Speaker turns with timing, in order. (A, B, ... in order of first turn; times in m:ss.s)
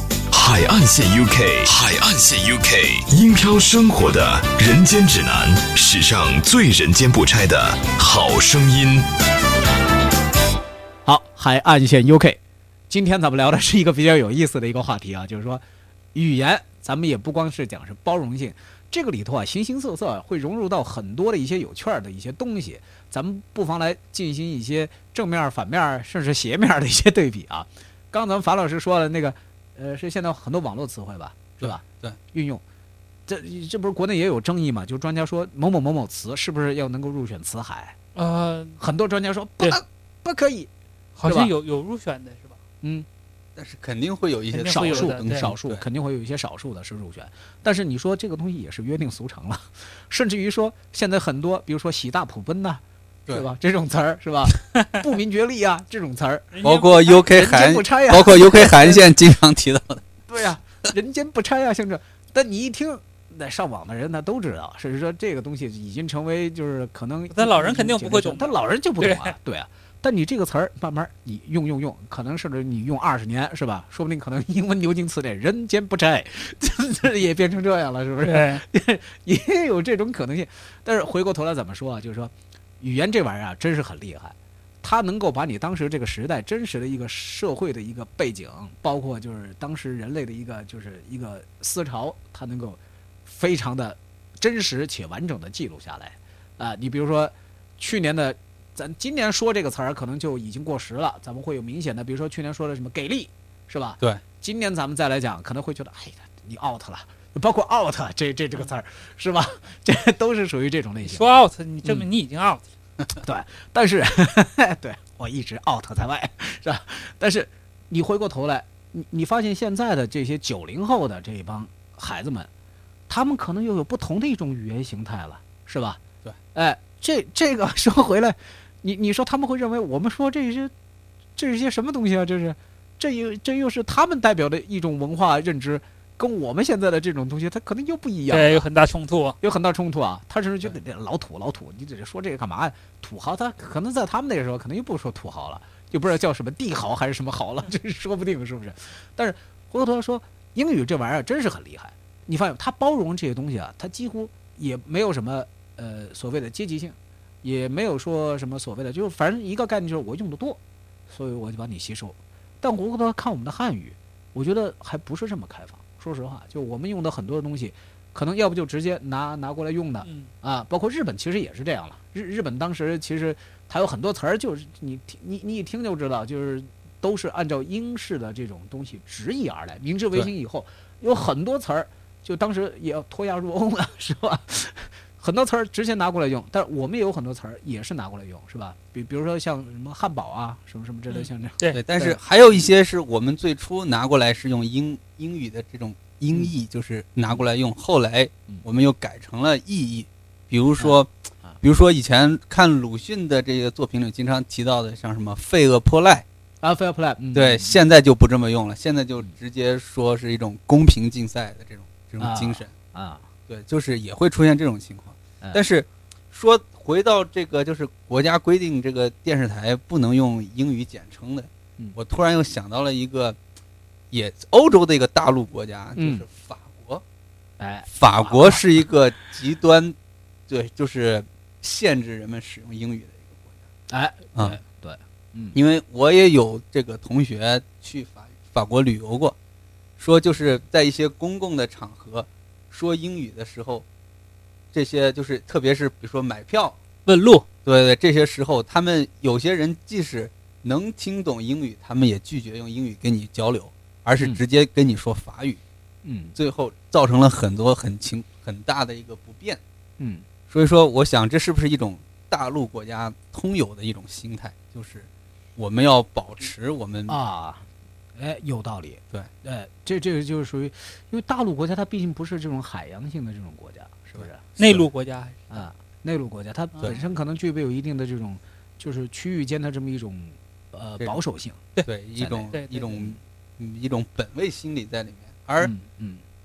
0:00.3-0:09.1 A
0:11.0-0:15.6 B
0:16.1-0:32.6 B
0:31.6-0:32.2 C
0:33.3-0:38.0 B
0:38.1-0:38.8 D
0:38.8-0:40.7 B
0:41.2-0:42.6 D
0:41.2-0:41.5 B
0:43.6-0:45.8 C
0:44.5-0:45.5 D
0:44.7-0:56.5 B
0:56.5-0:57.2 D
0:56.6-1:00.0 C
0:57.3-0:59.1 B
1:00.3-1:51.2 B
1:07.3-1:09.3 D
1:18.2-1:18.6 D
1:51.0-1:52.7 D
1:53.2-2:02.5 B
2:03.1-2:06.0 B
2:06.5-2:10.7 B
2:11.4-2:18.7 B
2:18.3-2:19.4 D
2:19.4-3:12.2 B
2:50.0-2:50.3 D
3:11.1-3:11.8 D
3:11.7-3:26.2 C
3:20.8-3:21.6 B
3:26.6-3:27.8 B
3:27.3-3:32.7 C
3:32.2-3:33.3 B
3:33.5-3:43.4 C
3:44.1-3:47.0 C
3:46.0-3:46.2 B
3:47.6-3:48.7 B
3:47.9-3:49.9 C
3:50.5-3:53.6 C
3:53.9-3:55.6 B
3:55.5-3:59.3 C
4:00.0-4:03.8 C
4:04.7-4:06.8 C
4:07.0-4:07.4 D
4:07.6-4:15.6 C
4:16.0-4:16.4 B
4:16.4-4:19.6 C
4:20.0-4:20.2 B
4:20.5-4:27.2 C
4:27.1-4:34.4 B
4:34.1-4:34.8 C
4:34.6-4:35.6 D
4:35.5-4:41.6 B
4:41.8-4:45.7 C
4:42.2-4:42.5 B
4:42.5-4:43.0 D
4:45.6-4:46.2 B